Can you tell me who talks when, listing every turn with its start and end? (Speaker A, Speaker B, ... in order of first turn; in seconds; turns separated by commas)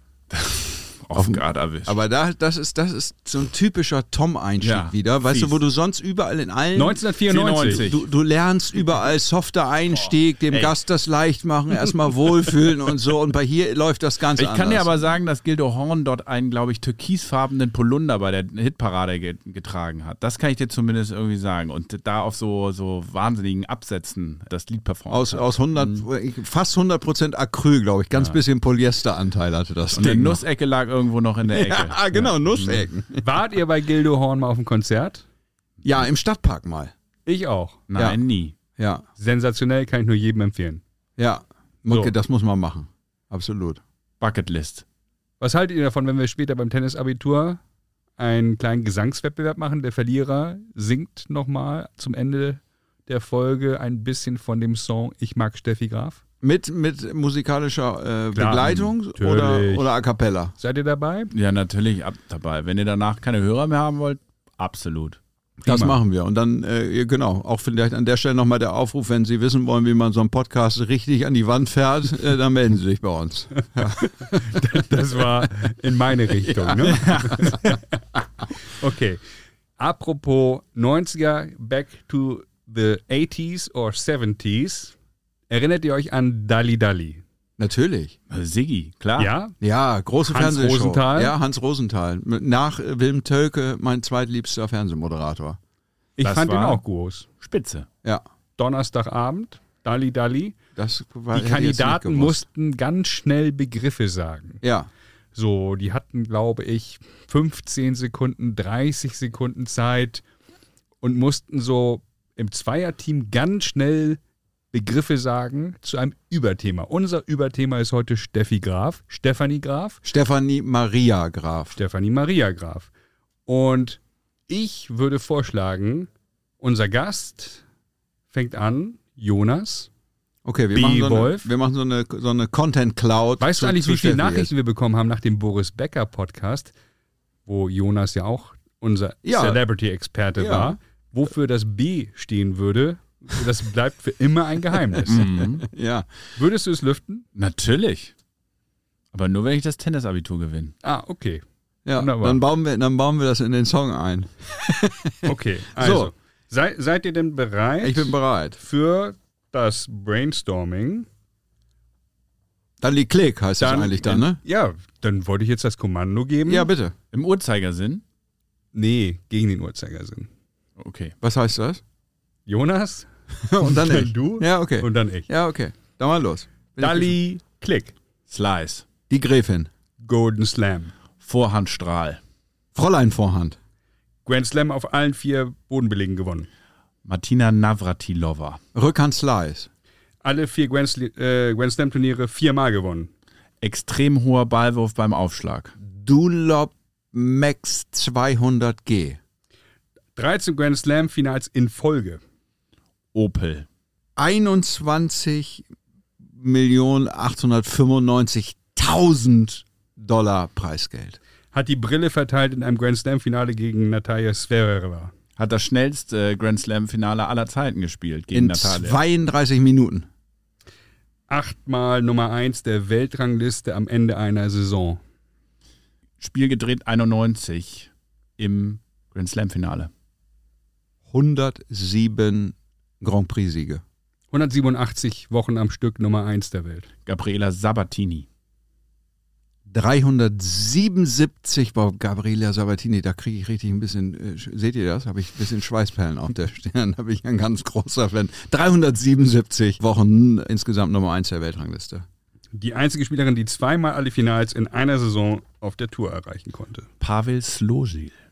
Speaker A: 0.3-2.0, Speaker B: 1.1-7.0, Speaker A: 4.6-5.6, Speaker C: 6.7-7.9, Speaker A: 7.3-8.0, Speaker B: 7.5-14.9, Speaker A: 9.9-10.7, Speaker A: 14.3-26.0, Speaker B: 25.1-30.4, Speaker A: 29.9-32.8, Speaker B: 31.5-33.3, Speaker C: 33.2-35.2, Speaker B: 35.8-36.9, Speaker C: 37.2-37.8, Speaker A: 37.9-38.5, Speaker B: 38.8-39.0, Speaker C: 39.2-40.8, Speaker B: 41.2-43.8, Speaker A: 44.2-44.8, Speaker C: 45.4-47.6, Speaker C: 48.2-56.2, Speaker B: 56.4-60.5, Speaker C: 58.3-59.9, Speaker C: 60.6-61.3, Speaker A: 61.3-65.2, Speaker C: 65.6-66.0, Speaker B: 65.6-75.5, Speaker C: 73.8-78.0, Speaker B: 76.4-77.6, Speaker A: 76.9-77.4, Speaker C: 78.7-79.2, Speaker C: 79.8-84.9, Speaker C: 85.5-87.2, Speaker B: 87.6-88.1, Speaker A: 88.3-89.3, Speaker C: 89.2-89.5, Speaker B: 89.6-95.6, Speaker C: 90.3-91.3, Speaker C: 96.2-97.3, Speaker A: 96.2-96.8, Speaker A: 97.4-97.9, Speaker C: 98.6-100.5, Speaker B: 100.8-102.4, Speaker C: 101.3-104.6, Speaker B: 104.6-104.9, Speaker C: 105.3-110.2, Speaker C: 111.0-114.2, Speaker C: 114.7-120.0, Speaker B: 120.0-121.8, Speaker C: 121.8-122.9, Speaker C: 123.5-126.1, Speaker C: 126.6-127.6, Speaker C: 128.3-129.9, Speaker B: 130.4-134.5, Speaker C: 130.7-131.5, Speaker C: 133.4-136.7, Speaker C: 137.4-145.3, Speaker B: 139.2-139.6, Speaker B: 140.4-140.8, Speaker B: 144.9-146.1, Speaker A: 145.1-145.6, Speaker C: 146.3-147.2, Speaker A: 147.3-148.1, Speaker A: 149.1-150.7, Speaker C: 150.8-151.4, Speaker B: 151.8-156.1, Speaker C: 151.9-152.4, Speaker C: 155.2-161.1, Speaker B: 157.8-158.6, Speaker B: 162.8-164.4, Speaker C: 163.6-166.7, Speaker B: 166.4-166.9, Speaker A: 167.1-168.0, Speaker C: 168.7-170.3, Speaker A: 170.8-171.1, Speaker B: 171.2-171.8, Speaker C: 172.5-175.3, Speaker B: 173.4-177.1, Speaker C: 176.8-177.9, Speaker A: 178.3-178.8, Speaker B: 179.1-179.7, Speaker C: 180.0-180.9, Speaker A: 181.2-182.2, Speaker B: 182.7-183.6, Speaker C: 184.2-186.5, Speaker A: 187.0-188.6, Speaker B: 188.7-189.7, Speaker C: 190.2-193.1, Speaker A: 193.6-195.7, Speaker B: 195.9-199.2, Speaker C: 200.2-202.2, Speaker A: 203.1-203.7, Speaker B: 204.2-205.7, Speaker B: 206.3-211.2, Speaker C: 211.5-215.1, Speaker A: 215.4-219.0, Speaker B: 218.3-220.1, Speaker C: 221.3-225.0, Speaker A: 226.2-229.9, Speaker B: 231.1-233.8, Speaker C: 234.3-236.9, Speaker A: 237.1-238.2, Speaker B: 239.7-252.0, Speaker C: 252.5-256.9, Speaker A: 257.0-258.1